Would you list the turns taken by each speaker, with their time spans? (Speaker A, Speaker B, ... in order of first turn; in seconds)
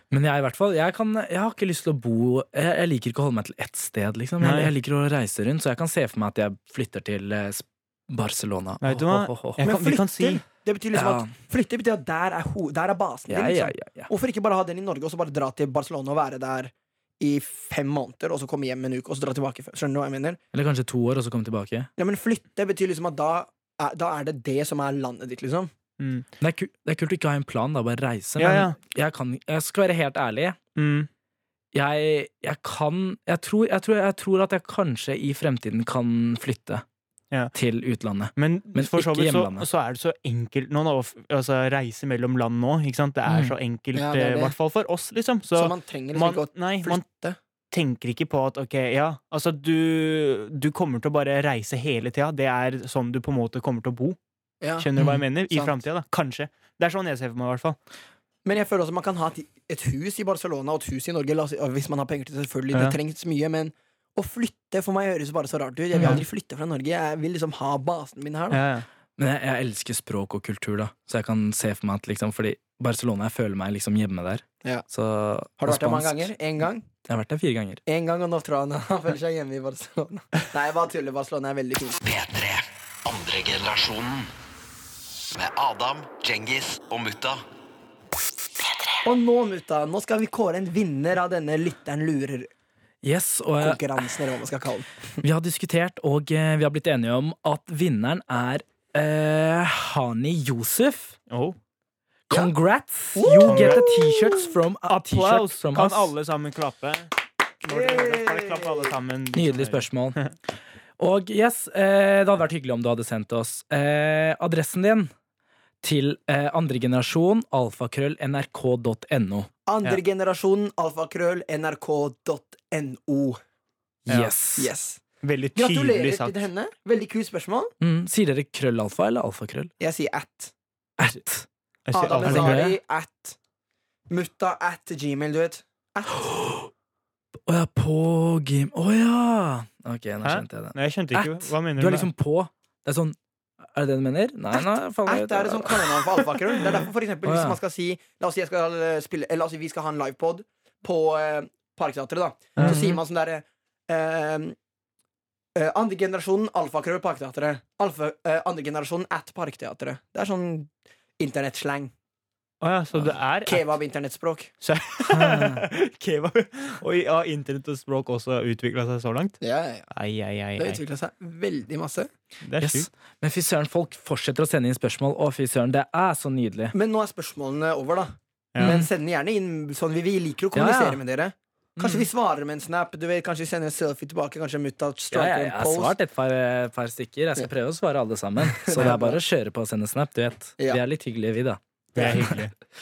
Speaker A: 0.1-9.6, 10.9-11.3, 13.3-14.1, 20.5-21.9, 26.4-30.6, 31.7-36.8, 37.5-39.7, 43.2-43.5, 55.0-55.2, 65.9-66.2, 69.2-76.3, 77.1-77.8, 93.0-94.1, 95.2-101.1, 102.3-106.1, 109.3-110.2, 111.0-115.1, 115.8-119.5, 124.1-124.7, 127.8-129.7, 131.0-131.5, 132.2-132.8, 136.2-136.7, 137.5-146.0, 147.2-147.6, 152.6-153.0, 165.1-165.6, 172.6-176.7, 178.6-178.9, 180.5-181.0, 181.8-182.0, 185.1-192.3
Speaker B: 4.4-4.7, 8.8-10.4, 26.0-26.2, 28.4-28.8, 30.8-31.1, 38.4-47.0, 47.7-54.2, 54.8-57.8, 68.5-68.8, 101.3-101.6, 103.4-103.8, 104.9-107.1, 107.6-110.3, 124.1-124.3, 125.2-126.4, 131.9-132.6, 140.2-142.1, 152.6-152.8, 162.6-163.6, 164.6-169.4, 169.9-170.8, 172.4-172.9, 178.5-178.8, 191.9-192.5
Speaker C: 9.6-20.4, 22.0-25.7, 43.9-44.5, 45.5-47.4, 54.6-54.9, 55.5-55.8, 58.4-68.6, 75.6-76.9, 77.8-82.0, 89.0-92.5, 93.6-94.9, 103.1-104.5, 107.7-108.9, 119.7-123.4, 124.6-125.0, 125.5-127.7, 129.8-130.5, 131.9-133.4, 134.1-136.3, 144.5-154.6, 155.5-161.9, 163.4-164.5, 169.4-169.9, 170.6-172.1, 176.7-185.9, 188.4-189.2, 191.9-192.3
Speaker D: 82.0-84.3, 85.3-87.4